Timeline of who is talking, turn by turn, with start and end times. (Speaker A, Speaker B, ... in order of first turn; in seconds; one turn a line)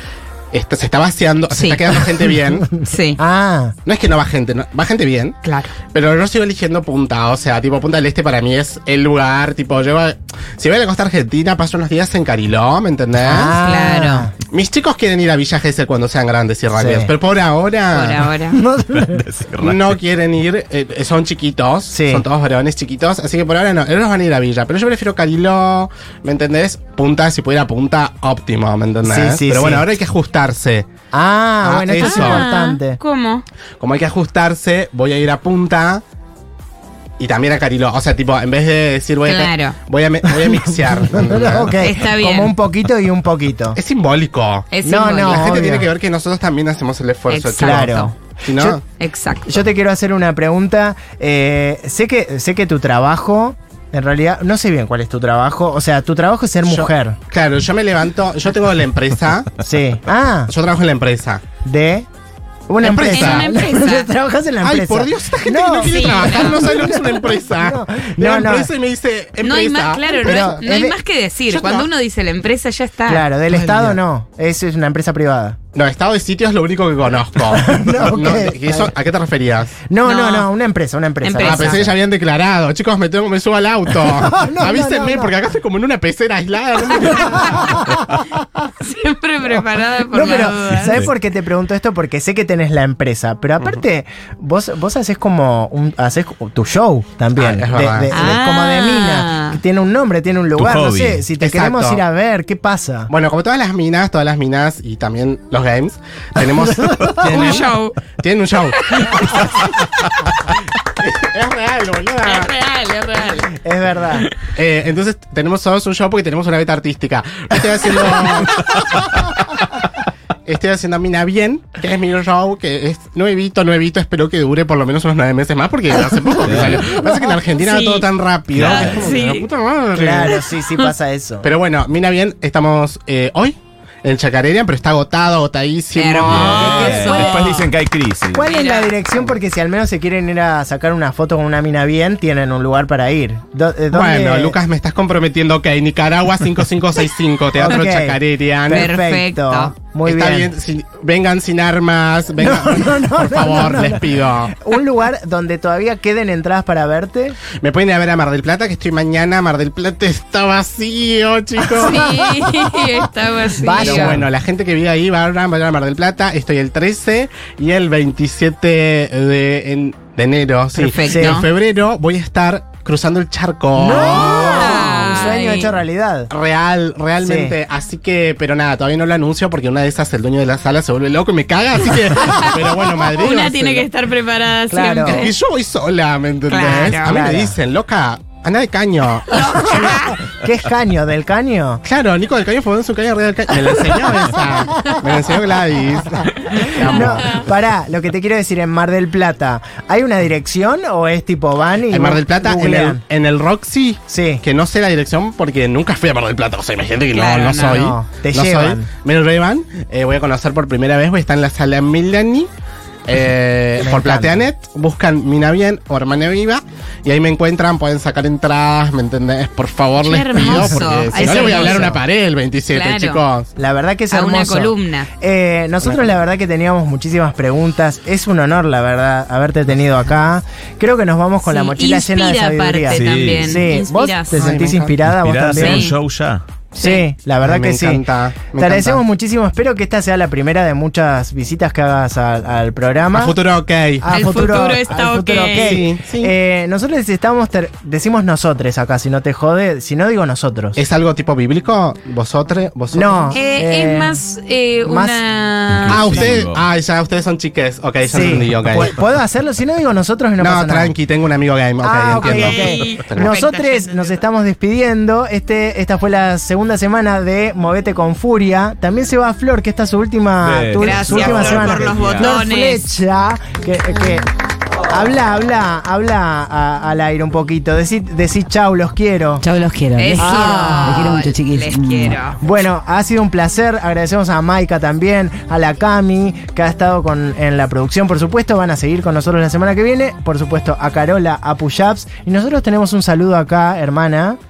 Speaker A: 0.5-2.7
Speaker B: 1.5-2.1
Speaker C: 2.6-3.8
Speaker B: 2.8-3.2
Speaker A: 3.8-13.6
Speaker B: 5.4-5.7
Speaker C: 13.2-14.3
Speaker B: 13.5-14.3
Speaker A: 14.5-18.3
Speaker C: 16.7-17.1
Speaker B: 17.9-18.6
Speaker C: 18.5-19.3
Speaker D: 18.9-20.0
Speaker A: 19.6-30.9
Speaker C: 21.9-22.2
Speaker C: 29.0-29.9
Speaker C: 31.1-33.0
Speaker A: 31.6-32.4
Speaker B: 32.0-33.4
Speaker A: 33.8-36.0
Speaker A: 37.2-41.7
Speaker B: 39.2-39.8
Speaker C: 40.3-43.8
Speaker B: 41.8-42.5
Speaker A: 43.7-48.8
Speaker B: 44.7-45.5
Speaker C: 44.8-45.9
Speaker B: 47.3-48.1
Speaker C: 47.6-48.8
Speaker B: 49.0-49.6
Speaker C: 49.5-57.2
Speaker A: 56.6-59.5
Speaker C: 59.6-60.5
Speaker A: 60.5-61.4
Speaker C: 61.6-62.1
Speaker C: 62.7-68.7
Speaker A: 62.8-63.6
Speaker B: 63.0-64.1
Speaker A: 64.6-70.6
Speaker B: 65.8-66.8
Speaker B: 69.4-73.3
Speaker C: 70.1-71.0
Speaker A: 71.5-71.9
Speaker C: 73.0-75.6
Speaker A: 73.5-74.0
Speaker A: 75.7-79.8
Speaker C: 77.5-78.9
Speaker C: 79.8-82.0
Speaker B: 80.0-80.5
Speaker B: 81.2-81.8
Speaker A: 81.4-87.8
Speaker C: 84.1-85.3
Speaker B: 87.3-87.7
Speaker C: 87.4-88.2
Speaker B: 88.8-91.0
Speaker C: 90.1-103.1
Speaker D: 90.7-91.0
Speaker A: 97.3-98.3
Speaker B: 98.1-99.6
Speaker D: 100.5-101.3
Speaker A: 101.3-102.0
Speaker A: 103.1-109.7
Speaker C: 106.8-107.6
Speaker B: 107.3-108.0
Speaker B: 108.7-109.6
Speaker A: 111.0-112.5
Speaker B: 112.2-113.5
Speaker C: 113.4-114.3
Speaker A: 114.5-119.2
Speaker A: 120.5-130.4
Speaker D: 126.3-127.0
Speaker B: 127.5-128.1
Speaker D: 128.5-129.3
Speaker B: 128.7-129.5
Speaker C: 129.9-131.5
Speaker A: 131.4-137.6
Speaker B: 135.9-137.7
Speaker D: 136.2-138.5
Speaker C: 136.3-137.5
Speaker C: 138.3-144.6
Speaker B: 138.5-139.0
Speaker A: 143.9-148.9
Speaker C: 147.5-150.5
Speaker B: 148.7-149.8
Speaker A: 150.0-154.6
Speaker C: 152.3-157.4
Speaker A: 157.6-162.1
Speaker B: 161.7-164.2
Speaker C: 161.8-162.6
Speaker C: 163.6-164.3
Speaker A: 163.7-175.3
Speaker B: 170.7-171.5
Speaker C: 171.1-171.4
Speaker C: 173.8-176.3
Speaker B: 173.9-175.8
Speaker A: 176.3-183.9
Speaker C: 177.2-177.6
Speaker B: 182.2-185.3
Speaker C: 184.7-185.3
Speaker A: 185.1-189.9
Speaker B: 186.5-187.2
Speaker C: 186.6-187.6
Speaker B: 189.3-190.2
Speaker C: 189.8-191.8
Speaker A: 191.8-197.5
Speaker C: 196.6-203.0
Speaker A: 201.9-212.5
Speaker C: 204.1-204.4
Speaker B: 207.1-207.8
Speaker C: 207.7-208.9
Speaker A: 213.1-223.5
Speaker C: 213.8-214.5
Speaker B: 220.0-221.9
Speaker C: 220.4-222.0
Speaker B: 222.7-223.2
Speaker C: 223.6-235.9
Speaker B: 224.1-225.1
Speaker B: 231.4-234.4
Speaker D: 232.8-233.7
Speaker A: 234.3-235.0
Speaker D: 235.0-236.4
Speaker B: 235.6-235.9
Speaker B: 236.7-237.1
Speaker C: 236.8-243.3
Speaker A: 237.4-239.0
Speaker A: 243.1-244.0
Speaker C: 244.0-250.8
Speaker B: 244.1-245.8
Speaker A: 245.6-246.3
Speaker A: 250.8-253.4
Speaker C: 252.9-254.2
Speaker B: 253.3-256.0
Speaker C: 254.8-255.2
Speaker D: 255.7-256.6
Speaker A: 255.9-258.9
Speaker C: 258.1-260.9
Speaker A: 260.4-263.3
Speaker C: 261.8-274.2
Speaker B: 262.2-264.2
Speaker D: 270.4-272.3
Speaker B: 270.8-272.9
Speaker C: 274.9-279.5
Speaker E: 279.4-282.1
Speaker B: 279.9-282.4
Speaker C: 280.1-281.3
Speaker C: 282.4-294.4